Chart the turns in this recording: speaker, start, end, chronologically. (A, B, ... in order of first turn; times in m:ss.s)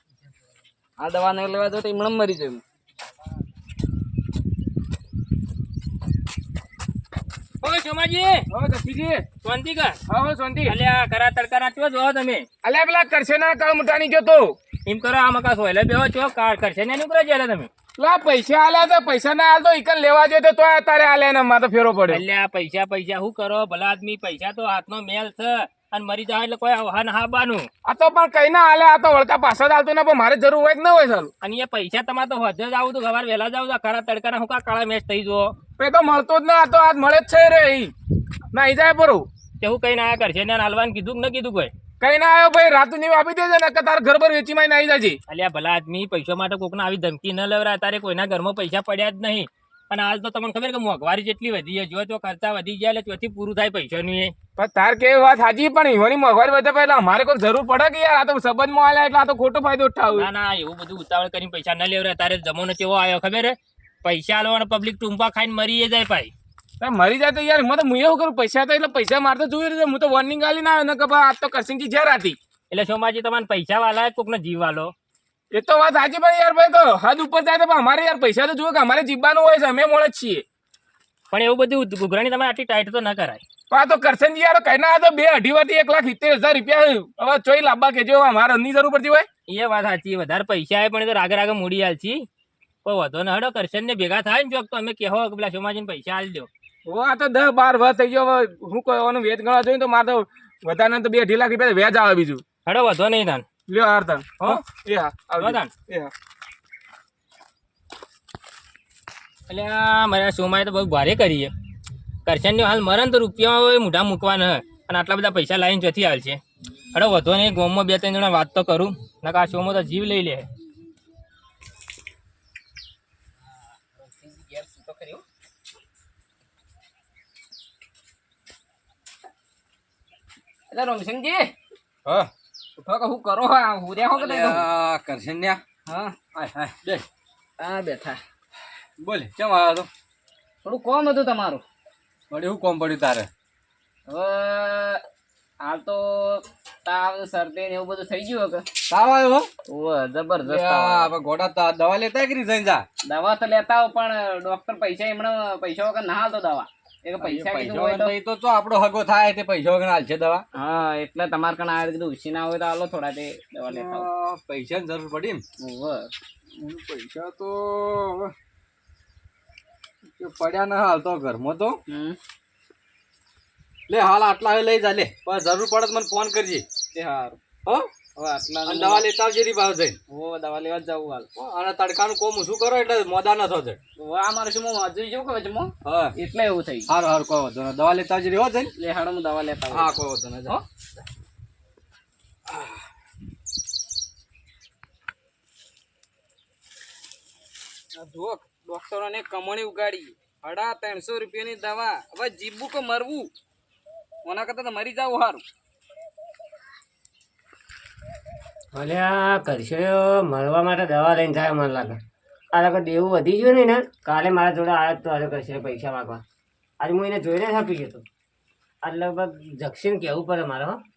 0:01.0-0:02.6 A
0:07.6-0:08.5 B
0:08.5-0:09.2 C
0:09.4-0:10.0 B
0:10.1-0:10.7 C
0:10.6-0:12.5 B
0:12.6-0:14.6 C
0:14.8-0:17.7 B
0:18.0-0:22.2 C
0:22.1-0:27.7 B
0:27.8-0:31.3 C
0:31.4-0:35.5 B
0:35.8-0:37.9 C
0:38.5-0:39.3 C
0:39.6-0:41.7 B
0:42.0-0:45.2 C
0:45.3-0:54.4 B
0:54.6-1:00.3 C
1:00.1-1:06.3 B
1:06.8-1:12.4 C
1:12.7-1:14.9 B
1:15.5-1:20.4 C
1:21.3-1:23.4 B
1:23.7-1:29.3 C
1:29.5-1:32.3 B
1:32.8-1:36.5 B
1:36.8-1:42.4 C
1:42.6-1:43.5 B
1:43.7-1:46.1 C
1:45.4-1:45.7 B
1:49.5-1:51.5 B
1:52.2-1:56.4 B
1:56.9-2:00.5 B
2:03.9-2:05.2 A
2:10.7-2:11.5 A
2:12.8-2:14.6 A
2:14.2-2:15.6 D
2:15.9-2:16.2 A
2:16.3-2:17.0 D
2:17.6-2:18.2 A
2:19.0-2:19.9 D
2:20.6-2:21.6 A
2:22.3-2:23.3 D
2:24.1-2:25.0 A
2:25.6-2:28.6 A
2:28.9-2:29.5 D
2:29.7-2:31.1 A
2:30.4-2:32.8 D
2:33.0-2:38.1 A
2:37.2-2:40.4 D
2:40.5-2:44.1 A
2:43.7-2:45.4 D
2:45.6-2:46.1 A
2:46.6-2:48.3 D
2:50.2-2:51.8 D
2:51.9-2:52.2 A
2:53.9-2:56.6 D
2:56.9-2:57.4 A
2:57.6-2:58.0 D
2:58.1-2:59.0 A
2:58.6-3:00.0 D
3:00.1-3:01.3 A
3:01.3-3:03.8 D
3:04.0-3:06.9 A
3:05.8-3:06.1 D
3:06.9-3:08.7 D
3:08.8-3:09.9 A
3:09.7-3:10.6 D
3:12.5-3:12.8 D
3:17.9-3:23.3 A
3:24.2-3:25.4 A
3:28.7-3:32.0 E
3:32.5-3:36.2 E
3:36.8-3:38.0 E
3:38.8-3:40.8 E